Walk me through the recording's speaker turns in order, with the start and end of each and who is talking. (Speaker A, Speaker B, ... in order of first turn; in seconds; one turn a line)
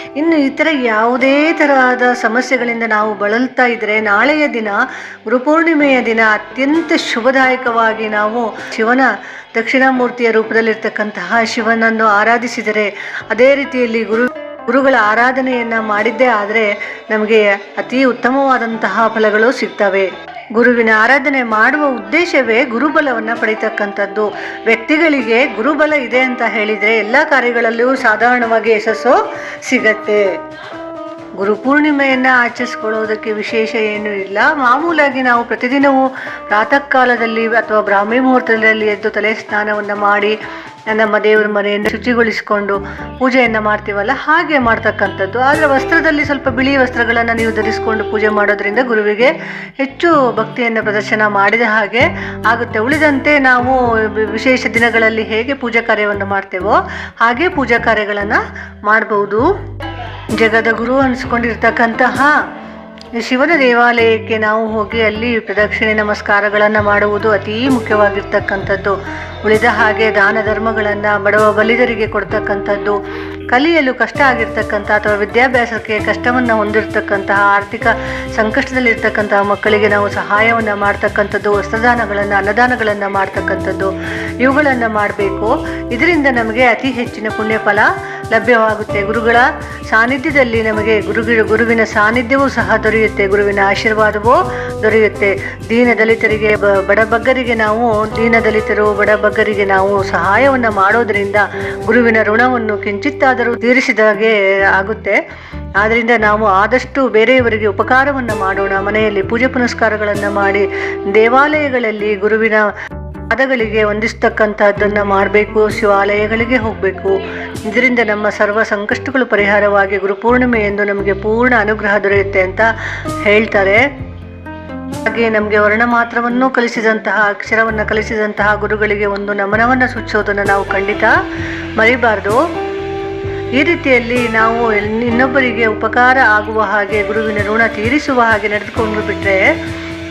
Speaker A: 0.2-30.4
Speaker A: 31.4-40.4
Speaker A: 40.9-59.5
Speaker A: 60.3-62.4
Speaker A: 63.2-73.0
Speaker A: 73.5-105.2
Speaker A: 105.8-112.7
Speaker A: 113.3-122.7
Speaker A: 123.2-123.8
Speaker A: 125.0-131.2
Speaker A: 131.8-132.4
Speaker A: 133.6-139.5